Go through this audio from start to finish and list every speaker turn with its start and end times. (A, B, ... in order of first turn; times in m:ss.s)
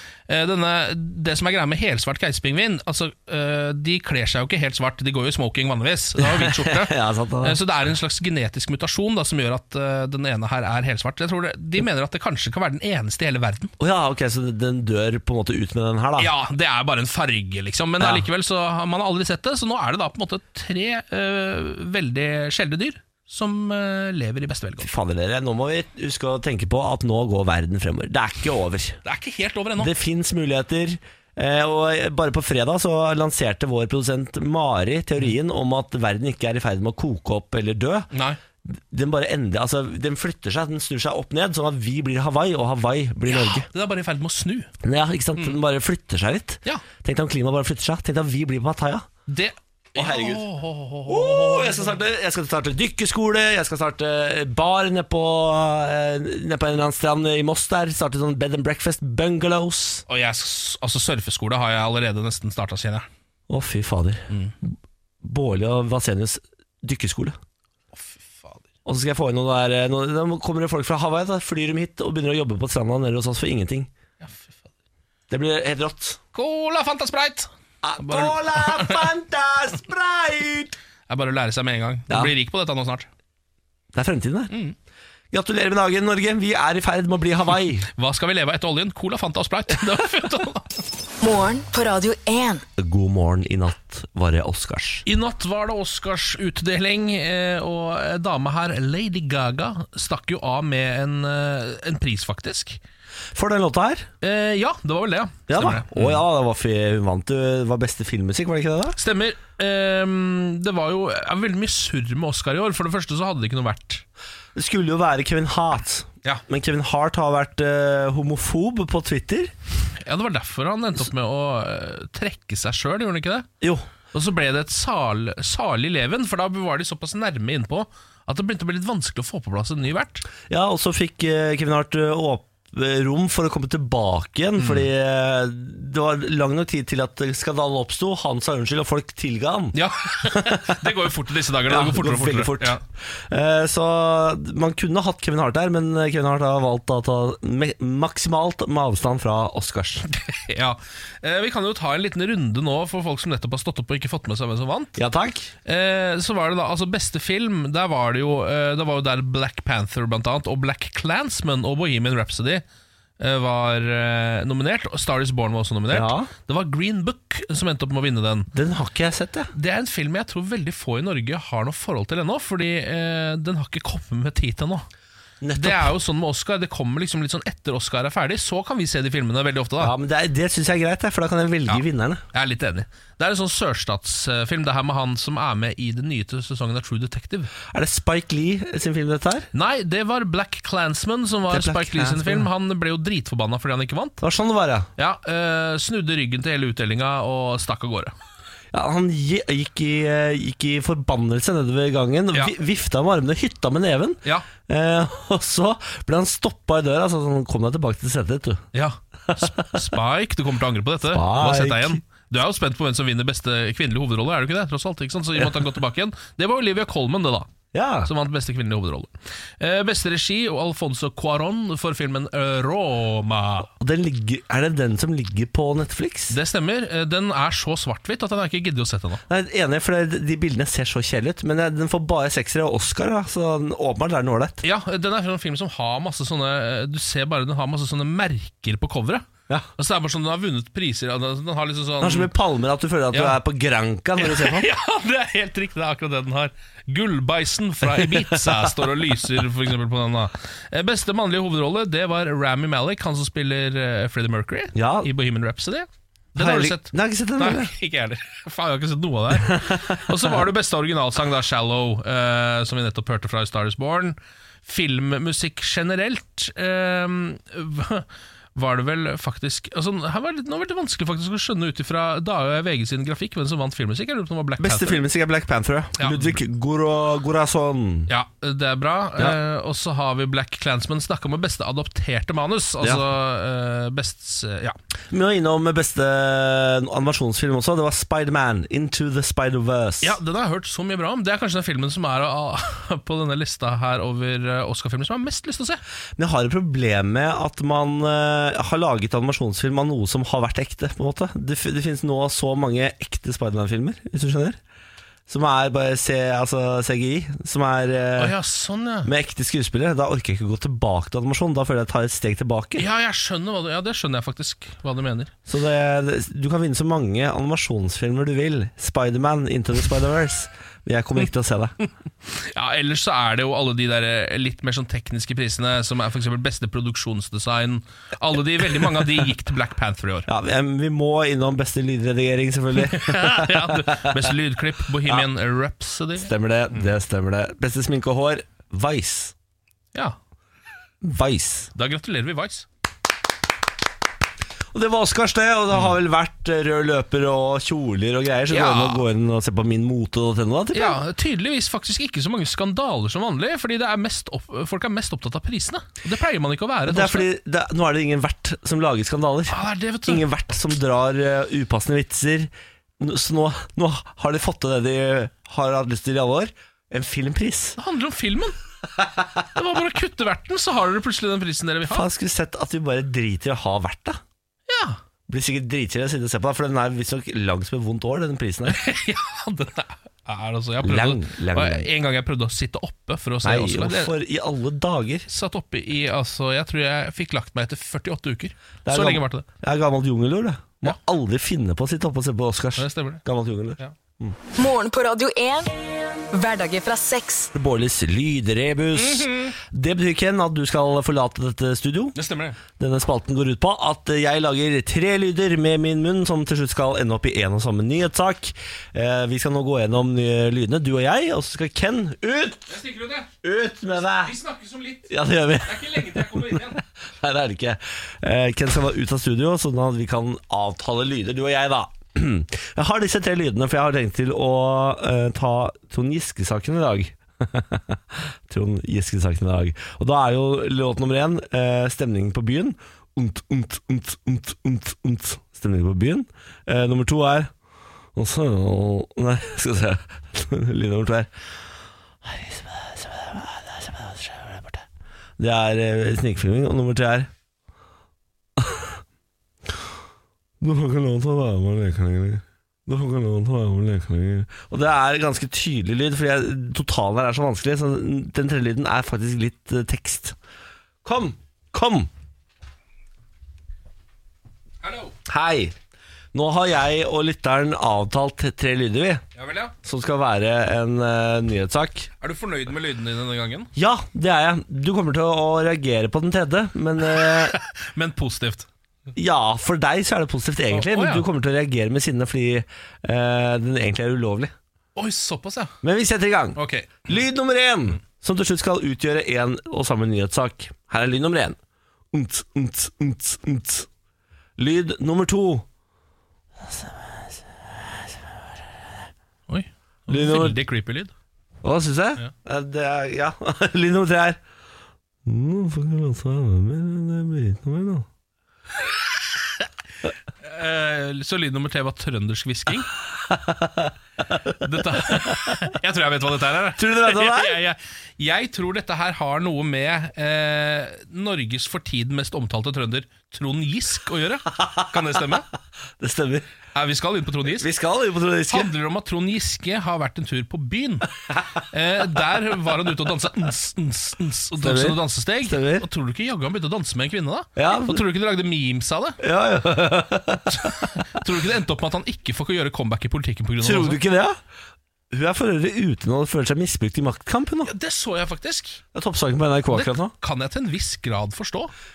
0:00.3-0:13.7 A
0:06.2-0:07.6 B
0:13.8-0:16.3 B
0:16.2-0:24.9 A
0:18.0-0:18.2 B
0:24.8-0:29.0 B
0:29.0-0:29.9 A
0:29.8-0:38.1 B
0:38.1-0:38.4 A
0:38.6-0:43.7 B
0:43.3-0:44.7 A
0:44.8-0:49.1 B
0:49.3-0:52.0 A
0:50.0-0:50.4 B
0:51.1-1:00.0 B
1:00.1-1:03.1 A
1:03.5-1:04.7 B
1:05.2-1:07.4 B
1:07.9-1:08.6 A
1:08.8-1:13.9 B
1:14.2-1:14.7 A
1:15.3-1:16.2 B
1:16.3-1:19.0 A
1:17.8-1:20.8 B
1:21.1-1:23.1 A
1:23.9-1:24.5 B
1:25.3-1:27.9 B
1:27.9-1:30.7 A
1:31.2-1:32.6 C
1:32.8-1:35.0 B
1:35.1-1:42.8 A
1:43.3-1:44.1 B
1:44.2-1:46.2 A
1:45.5-1:49.0 B
1:49.0-1:54.0 A
1:54.6-1:59.5 B
2:00.0-2:03.5 A
2:03.6-2:03.9 B
2:04.1-2:10.2 A
2:10.5-2:21.0 B
2:14.6-2:14.9 A
2:19.7-2:22.8 A
2:21.7-2:30.0 B
2:30.2-2:35.0 A
2:35.0-2:35.5 B
2:35.6-2:42.6 A
2:43.2-2:48.5 A
2:45.9-2:46.3 B
2:48.5-2:49.5 B
2:49.5-2:54.9 A
2:55.4-2:55.9 B
2:55.6-2:59.9 A
2:59.8-3:02.2 B
3:02.3-3:07.5 A
3:07.7-3:09.5 B
3:09.5-3:14.2 A
3:11.5-3:12.5 B
3:14.2-3:14.9 B
3:15.0-3:18.1 A
3:18.7-3:28.6 B
3:28.7-3:37.5 A
3:31.1-3:32.0 B
3:37.7-3:38.1 B
3:38.0-3:43.7 A
3:43.8-3:46.4 B
3:46.3-3:49.2 A
3:49.3-3:54.6 B
3:54.6-3:59.3 A
3:59.8-4:02.3 A
4:02.0-4:04.7 B
4:03.1-4:03.4 A
4:04.2-4:35.0 A
4:07.8-4:08.8 B
4:14.7-4:15.1 B
4:16.4-4:17.7 B
4:19.5-4:20.2 B
4:34.6-4:38.1 B
4:36.0-4:36.4 A
4:38.1-4:44.8 A
4:45.1-4:50.2 B
4:50.0-4:55.8 A
4:56.2-5:04.6 B
5:05.3-5:08.4 B
5:08.2-5:09.1 A
5:09.0-5:12.9 B
5:12.8-5:15.3 A
5:15.5-5:21.8 B
5:22.3-5:30.3 A
5:30.3-5:34.3 B
5:32.8-5:36.9 A
5:36.2-5:39.3 B
5:41.0-5:41.7 B
5:41.8-5:42.7 A
5:44.7-5:51.0 B
5:48.5-5:49.0 A
5:50.7-5:57.3 A
5:56.9-6:07.8 B
5:59.5-6:00.3 A
6:07.8-6:08.6 A
6:09.6-6:12.1 A
6:11.9-6:14.2 B
6:14.7-6:15.0 A
6:15.3-6:18.8 B
6:18.7-6:24.1 A
6:20.8-6:21.9 B
6:23.4-6:25.3 B
6:25.3-6:29.5 A
6:28.8-6:34.4 B
6:32.8-6:33.2 A
6:34.6-6:35.7 C
6:36.3-6:37.5 C
6:37.5-6:42.2 B
6:39.0-6:39.6 A
6:42.2-6:42.6 A
6:42.8-6:52.8 B
6:52.7-6:53.3 A
6:53.4-6:54.4 B
6:54.0-6:56.8 A
6:55.1-7:17.5 B
7:18.2-7:21.3 B
7:22.2-7:24.8 B
7:25.4-7:27.3 B
7:28.6-7:29.0 B
7:30.6-7:40.4 B
7:41.0-7:42.1 B
7:44.8-7:45.1 A
7:45.3-7:45.7 B
7:46.3-7:49.2 B
7:49.4-7:49.7 A
7:49.8-7:52.1 B
7:52.2-7:53.7 A
7:53.8-7:57.6 B
7:57.1-7:58.7 A
7:59.2-8:04.5 B
8:00.7-8:01.3 A
8:05.0-8:05.8 A
8:05.8-8:11.6 B
8:06.6-8:07.1 A
8:12.1-8:13.9 B
8:14.6-8:15.6 B
8:16.6-8:18.2 B
8:19.5-8:21.1 A
8:20.1-8:20.6 B
8:21.6-8:24.4 B
8:25.2-8:28.1 B
8:30.4-8:32.9 A
8:33.3-8:35.5 B
8:34.6-8:45.5 A
8:36.8-8:37.6 B
8:46.0-8:46.5 B
8:46.8-8:47.7 A
8:47.6-8:48.7 B
8:48.5-8:51.1 A
8:51.7-8:59.2 A
8:54.6-8:55.9 B
8:57.6-8:58.0 B
8:59.2-9:00.9 B
9:00.5-9:04.0 A
9:03.6-9:04.4 B
9:05.1-9:07.7 B
9:07.6-9:08.8 A
9:08.9-9:10.1 B
9:09.7-9:11.7 A